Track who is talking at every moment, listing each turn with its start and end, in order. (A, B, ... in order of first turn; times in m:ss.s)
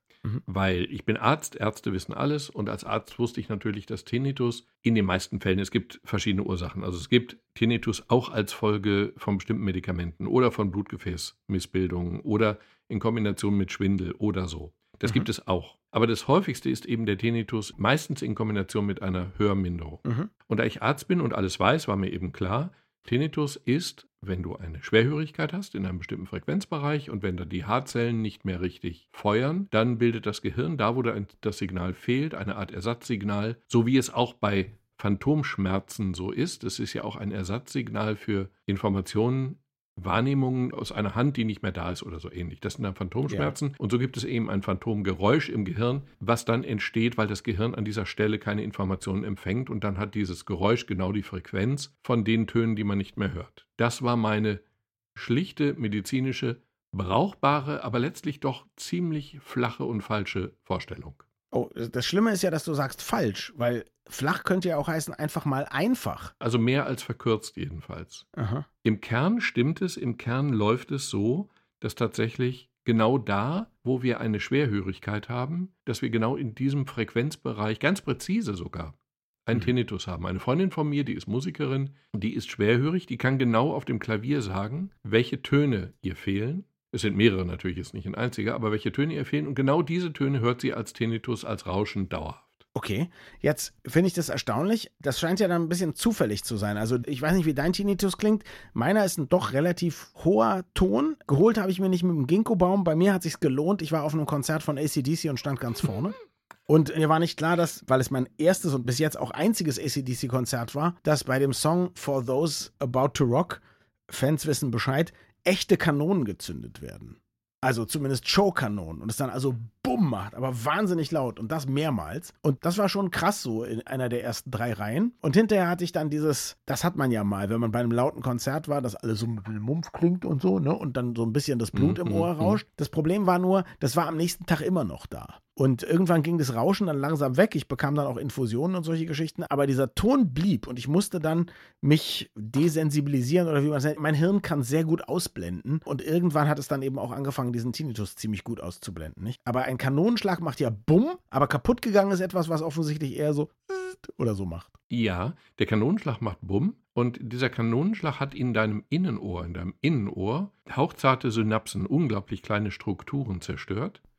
0:00.5-0:54.6 A
0:20.0-0:20.3 B
0:43.3-0:43.5 B
0:55.2-1:01.2 A
1:01.5-1:06.3 B
1:06.4-1:08.3 A
1:08.4-1:08.7 B
1:08.8-1:32.6 A
1:32.8-1:46.2 B
1:46.7-2:34.7 B
2:11.7-2:12.6 A
2:34.9-2:44.0 A